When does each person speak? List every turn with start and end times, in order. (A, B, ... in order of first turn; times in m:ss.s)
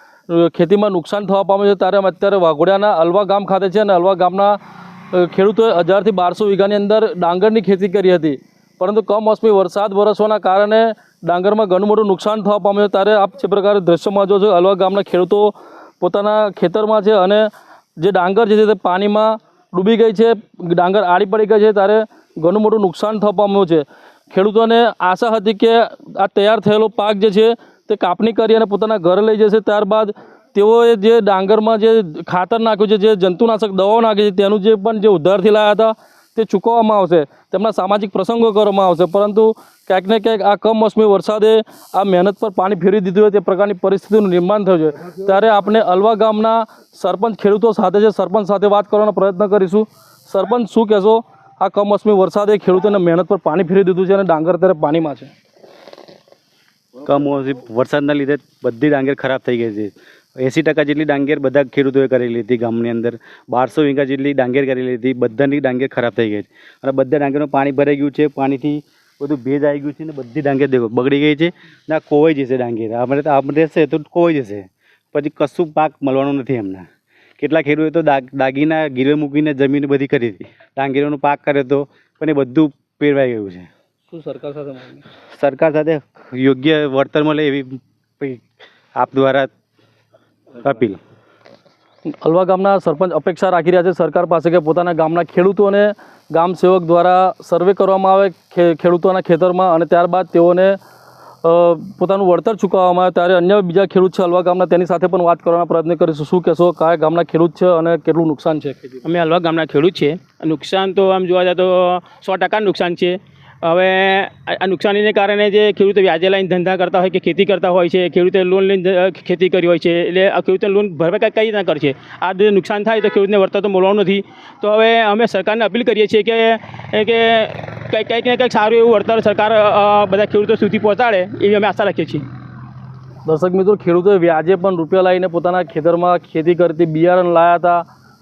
0:00.3-0:04.6 A
0:05.1-0:55.3 A
0:57.0-1:16.9 B
1:17.4-1:23.7 B
1:24.1-1:25.0 A
1:25.3-1:28.4 B
1:29.0-1:29.5 B
1:30.6-1:31.0 B
1:32.1-1:40.8 A
1:41.4-1:49.0 A
1:49.0-2:12.2 C
2:13.2-2:17.8 A